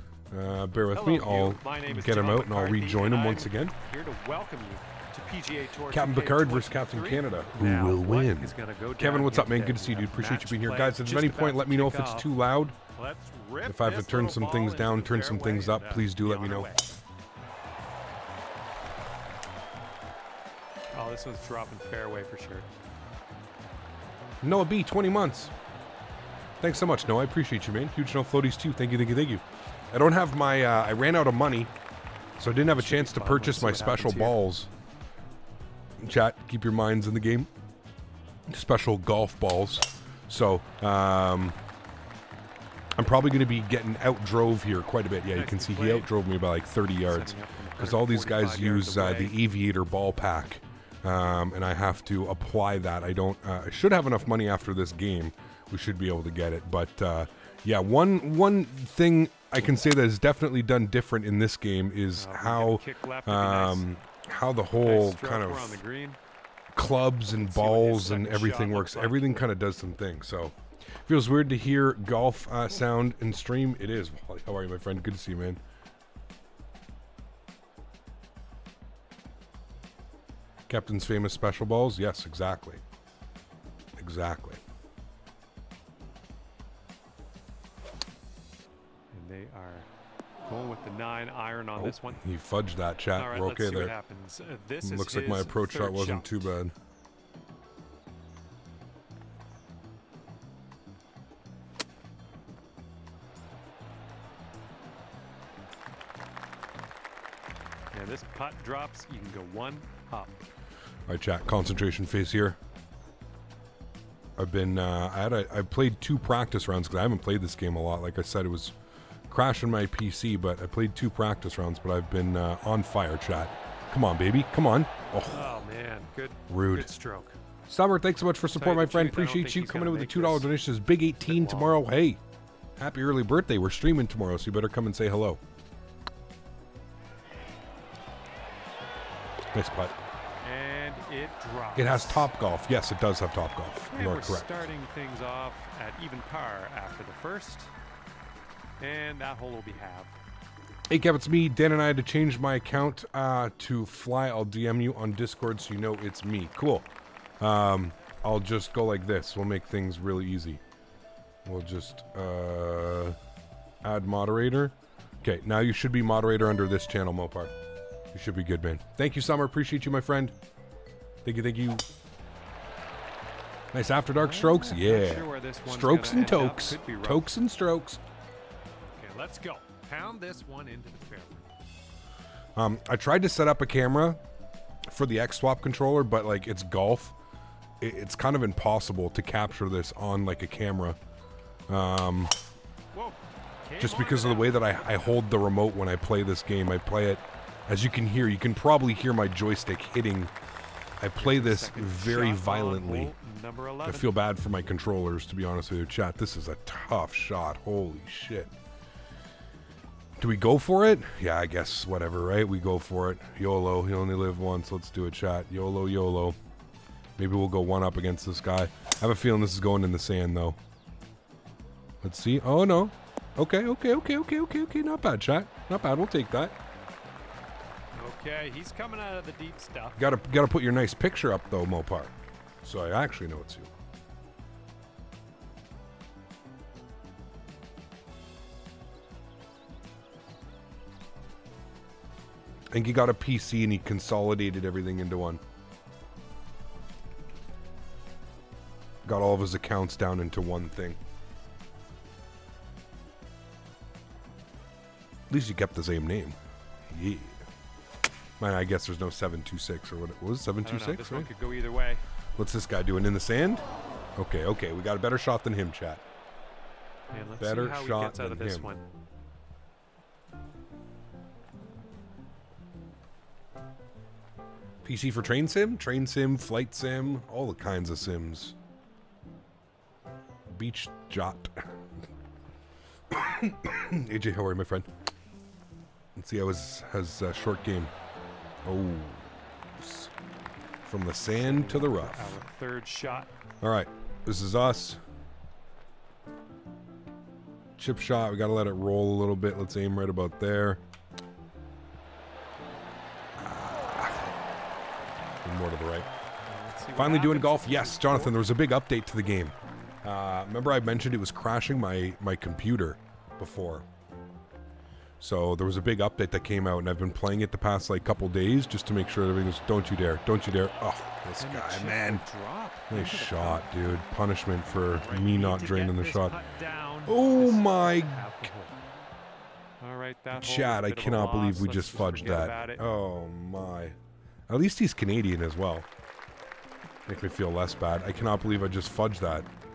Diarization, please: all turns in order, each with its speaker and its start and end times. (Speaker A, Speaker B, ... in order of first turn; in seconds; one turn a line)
Speaker A: 0.3-3.7
Speaker B: 0.9-12.3
Speaker A: 5.9-12.8
Speaker B: 12.9-16.8
Speaker A: 13.6-16.7
Speaker B: 20.9-22.7
Speaker A: 24.4-25.5
Speaker A: 26.6-31.7
Speaker A: 32.4-34.7
Speaker B: 32.7-34.4
Speaker A: 36.0-37.5
Speaker A: 38.5-41.6
Speaker A: 43.0-65.8
Speaker B: 45.2-46.1
Speaker B: 47.0-49.4
Speaker B: 62.1-63.9
Speaker B: 64.8-66.2
Speaker A: 66.7-75.6
Speaker B: 67.4-69.5
Speaker A: 80.7-82.8
Speaker A: 84.0-84.6
Speaker B: 89.1-89.9
Speaker B: 90.4-92.2
Speaker A: 91.8-93.9
Speaker B: 93.1-96.5
Speaker A: 94.8-96.7
Speaker B: 107.9-110.4
Speaker A: 111.1-112.6
Speaker A: 114.3-118.7
Speaker A: 119.3-125.6
Speaker B: 125.3-127.4
Speaker A: 126.5-126.9
Speaker A: 127.7-132.2
Speaker B: 128.6-130.5
Speaker B: 131.2-131.8
Speaker A: 132.8-135.4
Speaker A: 139.5-139.9
Speaker B: 140.4-142.3
Speaker A: 141.8-144.7
Speaker B: 143.9-147.7
Speaker B: 148.8-150.1
Speaker A: 150.9-156.9
Speaker A: 157.4-160.6
Speaker A: 161.4-163.2
Speaker A: 163.8-167.5
Speaker A: 168.1-170.3
Speaker A: 171.2-171.8
Speaker A: 173.7-178.0
Speaker B: 174.2-177.3
Speaker B: 179.0-181.4
Speaker A: 182.6-184.2
Speaker A: 184.9-187.2
Speaker A: 187.8-191.0
Speaker A: 191.7-192.3
Speaker B: 192.9-195.2
Speaker A: 193.8-200.3
Speaker A: 201.0-203.1
Speaker B: 201.2-204.1
Speaker A: 203.8-208.5
Speaker A: 210.2-216.3
Speaker A: 217.2-220.6
Speaker A: 222.0-226.6
Speaker B: 227.9-230.0
Speaker A: 230.0-233.7
Speaker A: 242.7-245.4
Speaker A: 249.0-251.0
Speaker A: 255.3-256.4
Speaker A: 256.9-257.4
Speaker A: 258.4-261.3
Speaker B: 260.6-262.0
Speaker A: 262.4-266.0
Speaker B: 267.1-268.8
Speaker A: 267.4-268.7
Speaker A: 274.8-278.6
Speaker A: 280.5-281.7
Speaker A: 283.1-284.9
Speaker A: 286.1-287.9
Speaker A: 288.6-290.1
Speaker A: 290.8-292.4
Speaker B: 291.3-293.3
Speaker A: 293.6-295.0
Speaker A: 297.8-300.8
Speaker A: 303.4-304.3
Speaker A: 305.4-306.1
Speaker B: 306.5-308.4
Speaker A: 306.9-313.9
Speaker A: 315.2-322.2
Speaker B: 321.4-323.7
Speaker A: 322.9-326.3
Speaker B: 324.7-328.8
Speaker A: 327.1-328.5
Speaker B: 329.8-332.8
Speaker A: 330.4-334.0
Speaker A: 334.5-335.9
Speaker A: 337.1-339.5